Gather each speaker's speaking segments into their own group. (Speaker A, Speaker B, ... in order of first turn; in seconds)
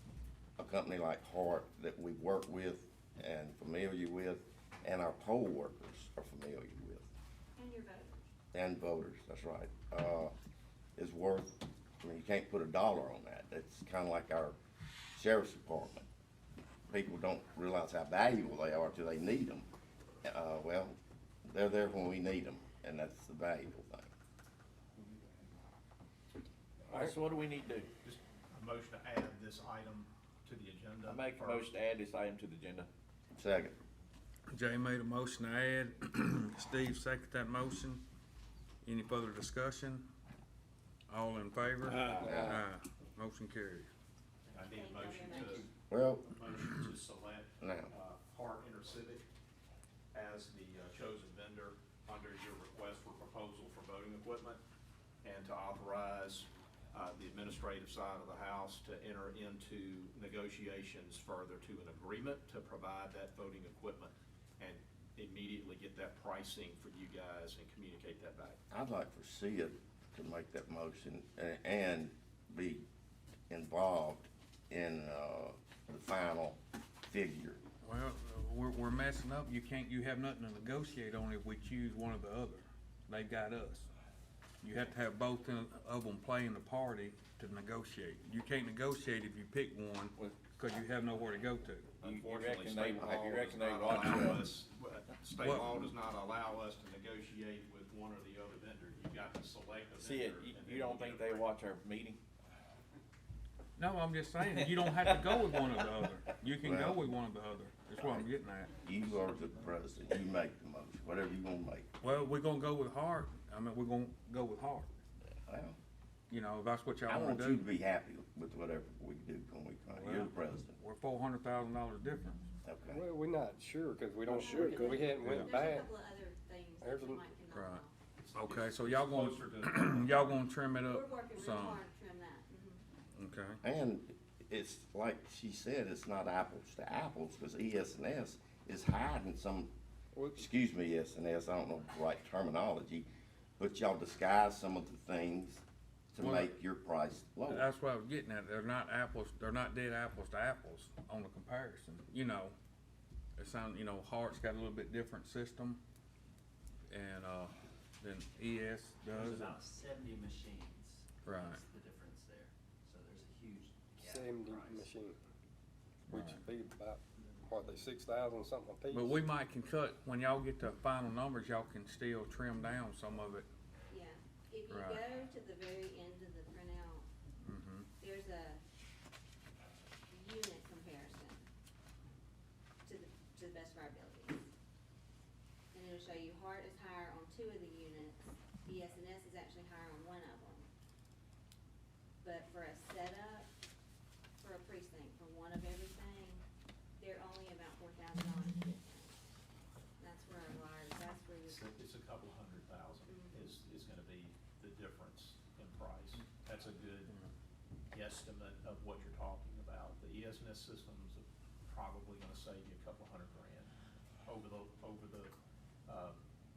Speaker A: 0.6-7.1, 8.5-10.3, 11.0-14.6, 15.1-16.1, 16.9-19.7, 20.2-24.1, 33.4-33.8, 42.2-42.6, 45.9-46.3, 47.6-47.9, 68.7-72.8, 73.5-77.6, 93.0-93.3, 106.6-107.0, 108.0-108.3, 108.8-111.9, 115.3-115.8, 117.1-120.8, 122.6-123.0, 133.6-139.7, 140.3-143.1, 143.6-147.7
Speaker B: 7.5-8.2, 44.5-45.7, 124.3-127.9, 130.9-132.8, 173.9-177.1, 178.0-178.6, 180.1-181.4, 182.8-184.5, 185.7-190.7, 192.2-193.5, 194.4-196.4, 197.0-199.2, 200.0-201.7, 203.1-203.5
Speaker C: 26.9-27.9, 31.0-32.9, 41.9-42.5, 92.0-94.5, 100.0-102.2, 104.6-105.4, 124.4-124.8
Speaker D: 28.0-31.7, 44.5-45.7, 46.2-49.2, 50.1-54.6, 55.2-68.6, 92.0-101.4, 128.3-130.5, 201.4-207.1, 207.9-213.7, 214.2-215.3, 215.8-216.2
Speaker E: 34.5-38.0, 38.8-40.1, 41.1-43.9, 77.8-83.9, 84.6-91.9, 103.8-108.7, 112.0-114.9, 116.3-117.7, 119.9-122.4, 125.1-125.6, 127.5-127.8, 128.3-131.8, 133.2-133.6, 146.2-146.5, 147.5-152.5, 153.4-155.8, 156.9-159.6, 161.2-161.6, 166.1-166.4, 168.9-173.5, 174.7-175.0, 177.4-177.9
Speaker F: 42.0-42.5, 122.9-125.9, 126.8-127.2, 140.1-140.5, 164.0-165.2, 166.1-169.2
Speaker G: 159.2-164.8